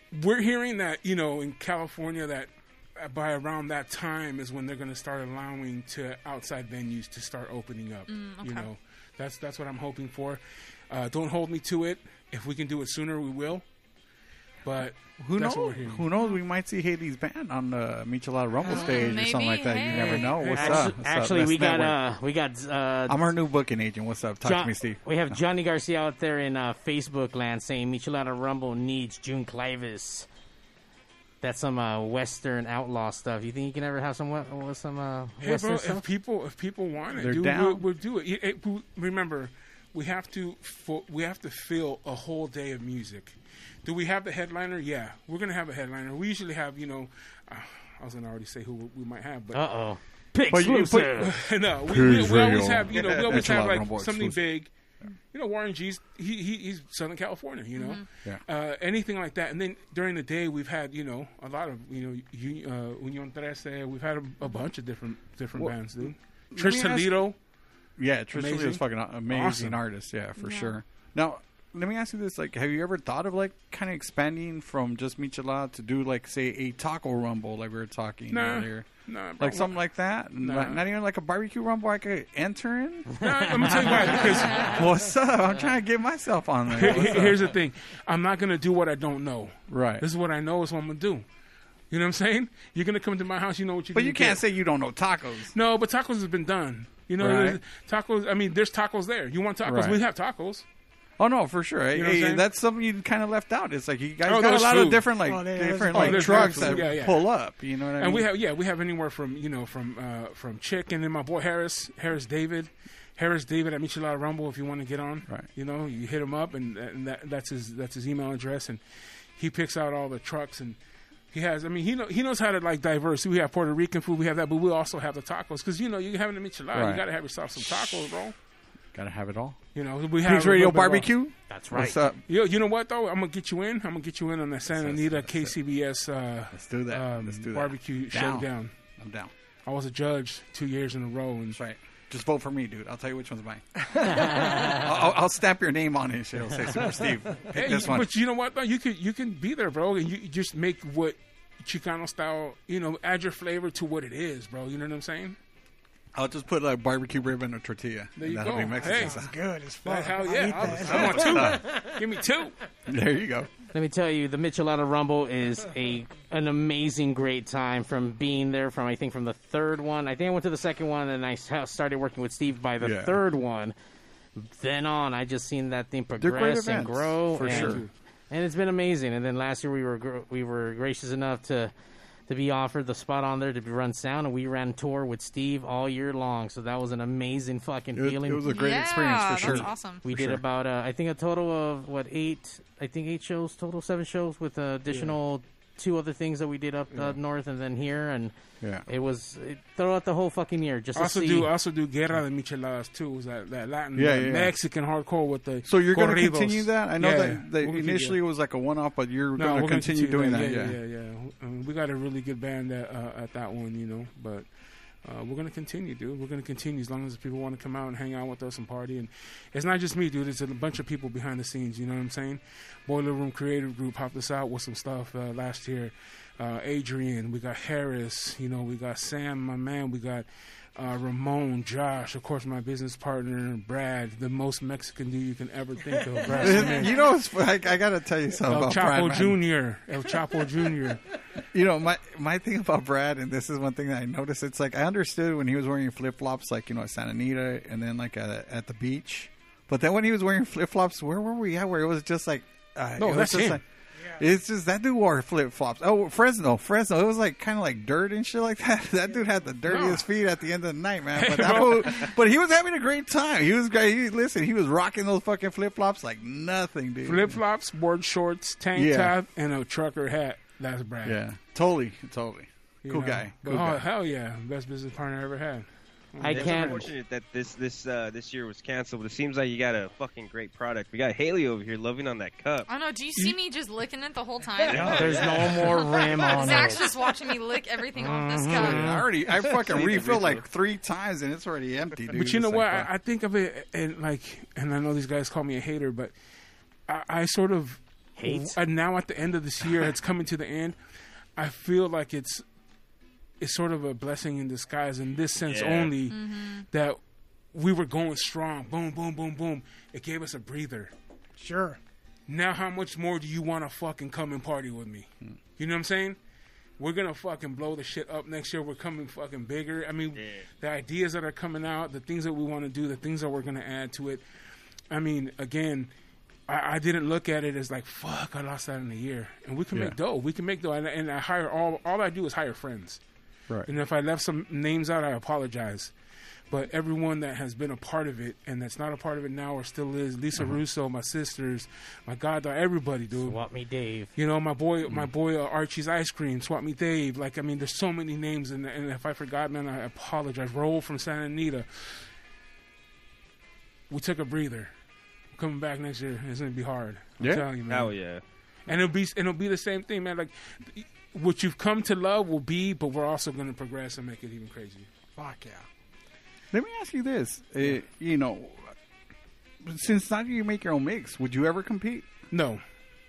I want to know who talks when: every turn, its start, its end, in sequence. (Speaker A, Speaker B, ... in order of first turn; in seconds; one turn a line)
Speaker A: 0.1-13.6
Speaker B: 8.1-8.7
Speaker A: 14.6-16.1
Speaker C: 15.2-22.0
Speaker B: 16.1-16.4
Speaker B: 18.6-20.5
Speaker D: 20.0-23.3
Speaker A: 20.1-20.8
Speaker C: 23.1-25.4
Speaker D: 24.4-30.3
Speaker D: 31.4-36.0
Speaker A: 35.4-49.6
Speaker C: 37.1-37.8
Speaker D: 49.5-51.3
Speaker C: 50.5-51.3
Speaker A: 51.1-54.7
Speaker C: 51.8-54.5
Speaker A: 55.3-67.3
Speaker B: 57.7-58.0
Speaker C: 65.5-67.1
Speaker C: 68.0-87.4
Speaker A: 68.3-69.8
Speaker B: 70.4-70.8
Speaker A: 78.3-79.7
Speaker A: 80.4-80.8
Speaker A: 83.1-84.7
Speaker D: 83.2-84.2
Speaker B: 84.3-85.0
Speaker A: 86.7-91.2
Speaker C: 89.7-90.0
Speaker A: 91.9-94.4
Speaker C: 93.9-95.5
Speaker A: 95.5-100.6
Speaker C: 97.2-97.6
Speaker C: 99.6-100.0
Speaker C: 101.2-108.3
Speaker A: 101.9-102.4
Speaker A: 104.2-105.1
Speaker E: 105.2-106.9
Speaker A: 105.9-107.3
Speaker A: 108.0-118.8
Speaker A: 119.4-120.8
Speaker A: 121.3-128.3
Speaker C: 126.7-127.0
Speaker C: 128.9-129.6
Speaker A: 129.7-131.1
Speaker C: 130.2-132.2
Speaker D: 131.5-132.0
Speaker A: 132.3-138.7
Speaker C: 134.7-135.5
Speaker C: 136.5-138.5
Speaker C: 139.0-139.3
Speaker A: 139.7-141.6
Speaker C: 141.5-148.1
Speaker D: 144.0-144.9
Speaker A: 147.5-155.4
Speaker C: 156.1-159.3
Speaker A: 158.2-159.2
Speaker E: 158.7-162.0
Speaker A: 159.8-162.5
Speaker C: 160.6-161.6
Speaker C: 162.9-163.5
Speaker D: 163.7-173.7
Speaker C: 172.8-173.2
Speaker D: 174.3-181.7
Speaker C: 176.2-177.8
Speaker A: 177.4-177.9
Speaker D: 182.3-188.6
Speaker C: 187.9-190.4
Speaker B: 188.4-190.0
Speaker D: 189.4-198.3
Speaker D: 198.8-201.5
Speaker A: 200.9-208.2
Speaker C: 203.9-204.5
Speaker C: 205.6-210.8
Speaker A: 209.4-214.5
Speaker A: 215.0-237.0
Speaker E: 236.2-236.8
Speaker C: 236.4-239.4
Speaker A: 238.5-241.0
Speaker C: 241.5-253.6
Speaker A: 253.0-253.6
Speaker E: 254.0-254.3
Speaker C: 254.2-267.4
Speaker A: 259.7-260.0
Speaker A: 261.1-262.1
Speaker A: 267.0-271.2
Speaker C: 268.7-269.1
Speaker C: 271.0-273.8
Speaker A: 272.8-276.9
Speaker D: 276.2-276.8
Speaker F: 276.2-282.7
Speaker B: 282.7-288.9
Speaker F: 284.6-285.5
Speaker D: 284.7-286.9
Speaker D: 287.9-289.1
Speaker C: 288.5-292.9
Speaker F: 289.7-290.4
Speaker A: 292.1-296.1
Speaker A: 296.9-300.8
Speaker D: 298.2-298.6
Speaker A: 301.4-302.4
Speaker A: 303.4-307.0
Speaker F: 305.4-305.9
Speaker B: 306.1-306.6
Speaker A: 307.5-310.9
Speaker E: 311.4-311.8
Speaker A: 312.3-316.2
Speaker A: 316.8-324.2
Speaker F: 320.1-320.4
Speaker A: 324.9-325.9
Speaker A: 326.5-333.0
Speaker A: 333.7-335.9
Speaker A: 336.5-343.4
Speaker D: 343.2-344.1
Speaker A: 344.1-351.6
Speaker A: 353.9-354.7
Speaker A: 355.3-357.9
Speaker C: 357.2-357.4
Speaker F: 357.7-358.2
Speaker A: 358.7-364.9
Speaker E: 365.1-365.6
Speaker C: 366.5-368.7
Speaker C: 369.6-372.1
Speaker A: 372.3-372.6